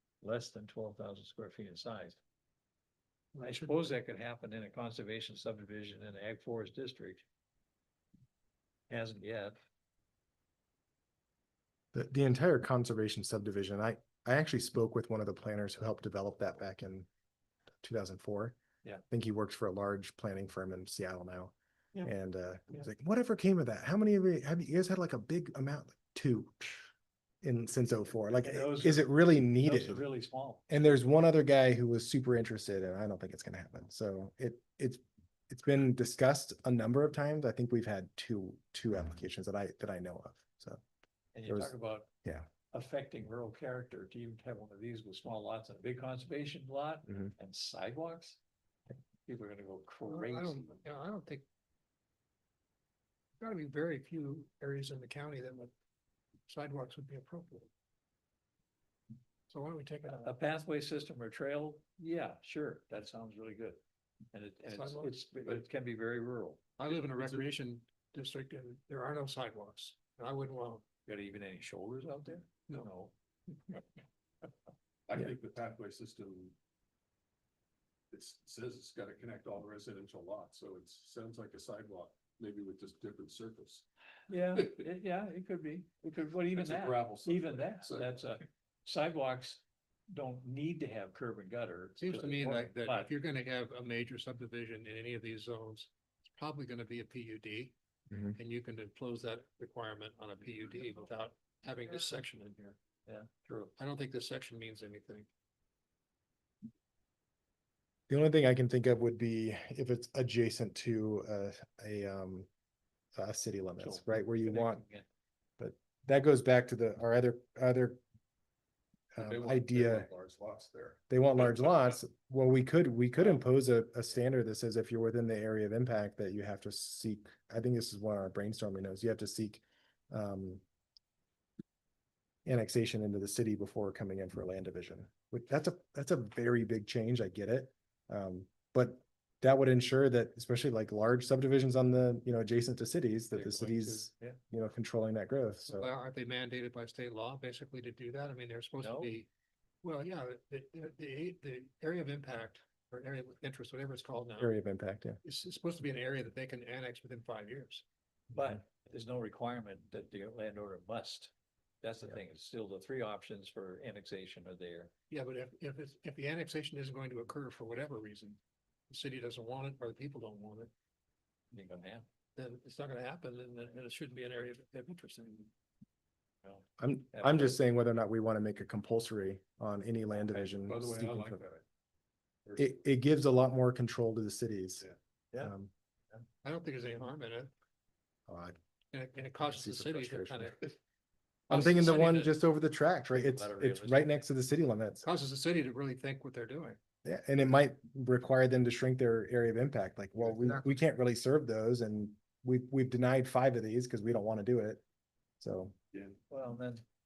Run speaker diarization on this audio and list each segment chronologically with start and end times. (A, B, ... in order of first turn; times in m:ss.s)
0:00.2-0:02.2 A
0:03.3-0:03.8 B
0:03.4-0:07.2 A
0:08.9-0:09.6 A
0:11.9-0:17.1 C
0:17.8-0:18.6 C
0:19.1-0:26.8 C
0:27.4-0:30.0 C
0:28.4-0:30.6 A
0:30.7-0:40.8 C
0:41.3-0:42.1 A
0:41.5-0:42.5 C
0:42.7-0:48.4 A
0:49.2-0:50.8 A
0:50.1-0:51.4 B
0:53.4-0:55.7 B
0:56.5-0:57.7 B
0:59.5-1:00.3 B
1:00.1-1:03.8 A
1:04.3-1:06.6 A
1:04.7-1:05.6 B
1:06.8-1:10.8 B
1:11.0-1:13.1 A
1:15.1-1:16.5 D
1:18.1-1:23.8 D
1:24.3-1:33.1 A
1:26.5-1:28.2 D
1:32.0-1:37.7 B
1:38.1-1:38.3 C
1:38.3-1:42.8 B
1:43.1-1:43.7 A
1:43.8-1:45.3 B
1:48.1-1:52.5 C
1:53.1-1:54.8 C
1:53.8-1:55.1 A
1:55.6-1:58.0 C
1:59.1-2:00.1 C
1:59.2-2:01.0 D
2:01.1-2:10.6 C
2:12.4-2:25.9 C
2:23.3-2:24.4 A
2:25.7-2:29.3 B
2:28.8-2:29.1 A
2:29.8-2:34.5 B
2:34.4-2:35.2 C
2:35.2-2:37.8 B
2:38.3-2:44.9 A
2:45.1-2:50.7 B
2:51.5-2:52.0 A
2:52.4-2:55.5 B
2:56.4-2:57.6 A
2:56.8-3:01.4 C
3:00.3-3:01.6 D
3:02.6-3:05.7 C
3:06.4-3:07.5 B
3:08.3-3:08.6 C
3:08.9-3:10.8 B
3:09.4-3:10.6 C
3:11.5-3:12.4 A
3:11.5-3:15.0 C
3:13.1-3:14.2 A
3:15.0-3:16.8 B
3:17.0-3:24.8 C
3:25.4-3:25.7 C
3:26.3-3:26.8 A